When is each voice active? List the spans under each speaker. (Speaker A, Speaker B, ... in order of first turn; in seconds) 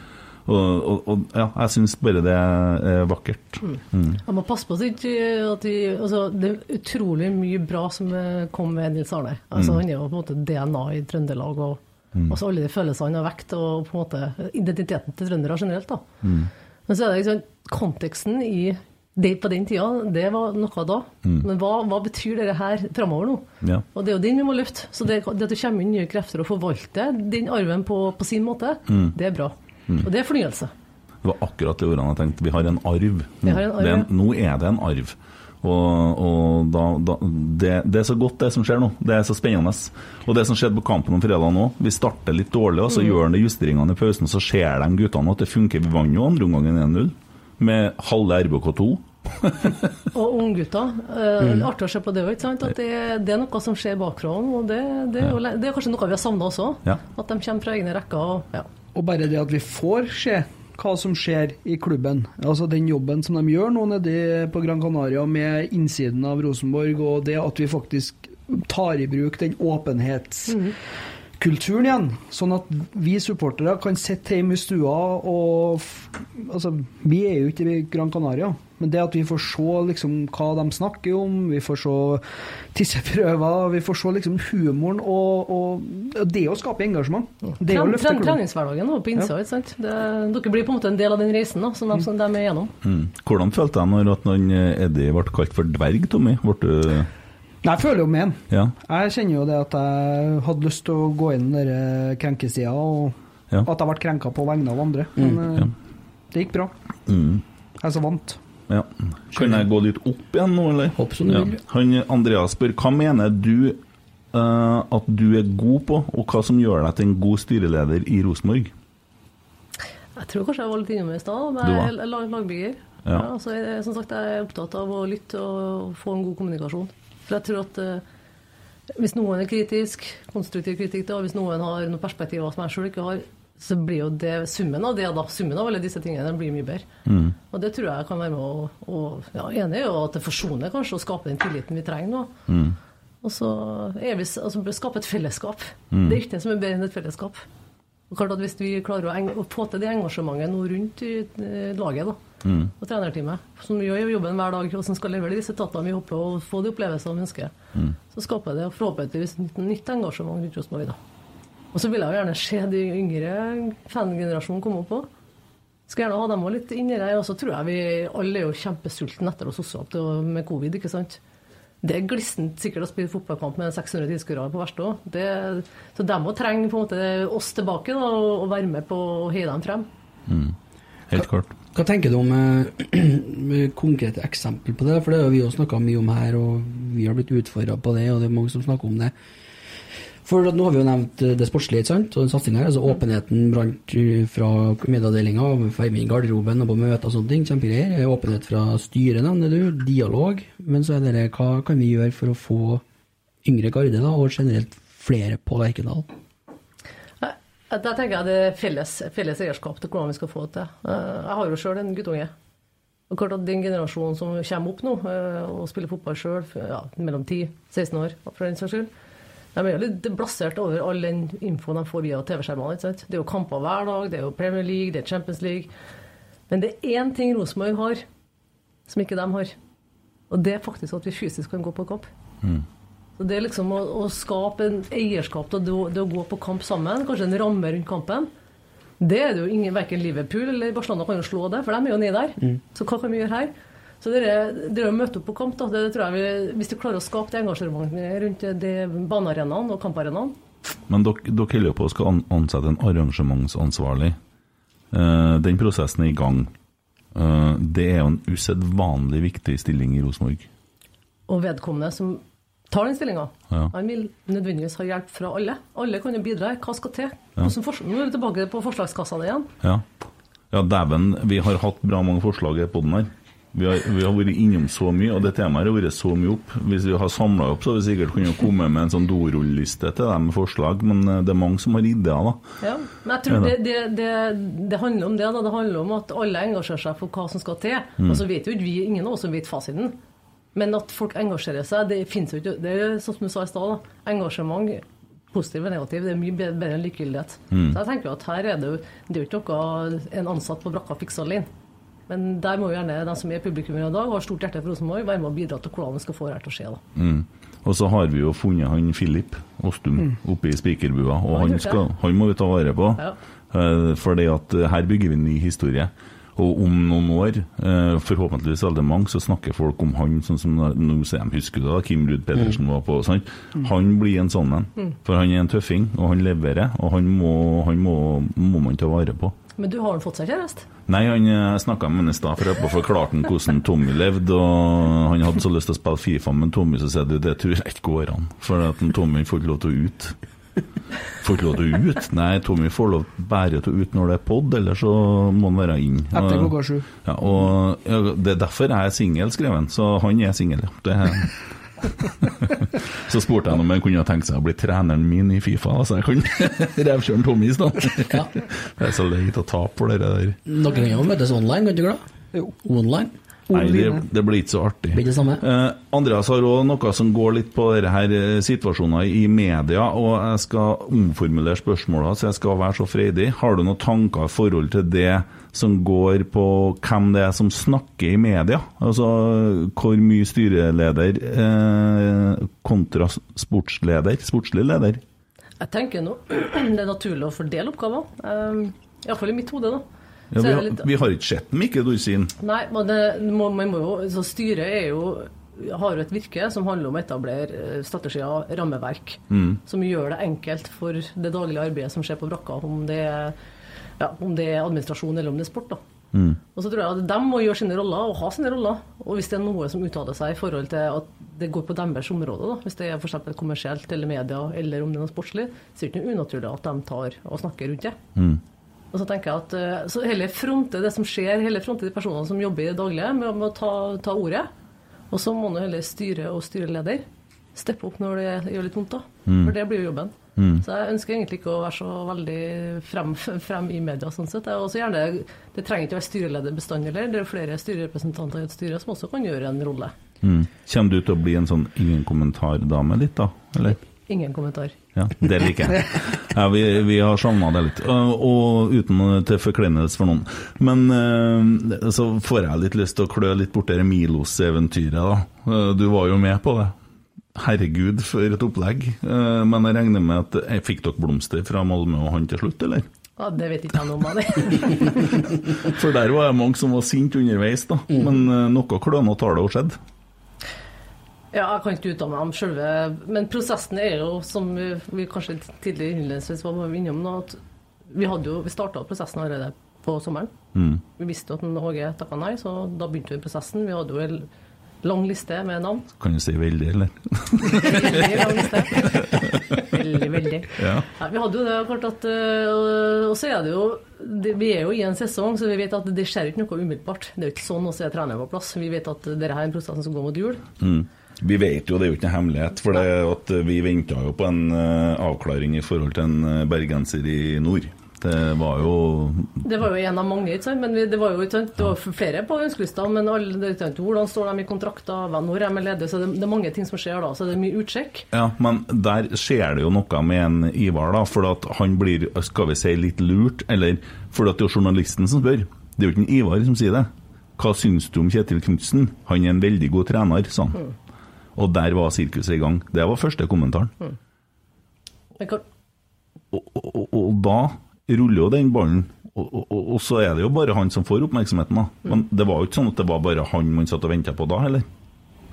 Speaker A: 0.5-4.2, 16.2-16.5, 28.9-29.1, 31.2-49.9, 92.8-97.1, 107.1-107.4, 108.7-113.8, 114.3-118.7, 121.6-121.9, 137.1-137.3, 142.5-142.8, 145.9-146.2, 152.4-152.7, 180.3-180.6, 181.1-181.5, 250.9-254.2, 254.9-256.5, 257.1-260.5, 270.5-282.4, 297.5-297.8, 306.9-329.3, 330.9-340.1, 341.2-351.4, 352.0-360.4, 363.5-385.0, 390.3-392.3, 399.3-399.6, 406.1-406.4, 418.1-418.4, 429.3-429.5, 430.4-430.6, 440.2-443.8, 444.9-456.7, 457.4-462.9, 465.2-469.8, 480.5-480.8, 486.0-489.7, 490.6-490.9, 500.6-509.4, 518.1-530.6, 531.4-533.7, 536.3-544.6
Speaker B: 3.6-16.0, 16.9-30.7, 33.4-34.1, 42.9-43.2, 50.1-58.7, 70.5-70.7, 87.6-92.7, 120.2-128.0, 128.9-136.8, 137.5-142.3, 143.2-147.4, 148.1-152.2, 152.8-157.5, 158.1-161.0, 161.7-165.1, 165.9-171.2, 171.8-179.9, 207.2-212.3, 213.1-218.9, 219.5-225.7, 226.5-228.0, 228.9-229.5, 230.3-232.1, 233.2-238.3, 239.0-250.3, 261.3-269.5, 282.6-289.9, 290.5-301.5, 302.1-306.8, 311.3-311.8, 329.6-330.7, 385.6-389.8, 390.4-390.8, 392.4-403.4, 404.0-405.8, 406.5-418.0, 418.9-424.5, 425.1-439.9, 444.1-444.7, 463.2-465.1, 471.3-477.4, 477.9-480.3, 481.0-484.3, 484.8-485.9, 487.6-500.4, 509.4-518.1
Speaker C: 58.9-70.6, 71.4-88.4, 97.6-105.7, 106.3-106.7, 107.8-108.4, 346.1-346.9, 363.5-364.0
Speaker D: 111.0-111.5, 181.7-189.1, 190.2-202.8, 203.4-206.1, 360.4-362.0, 362.6-363.1, 364.9-365.4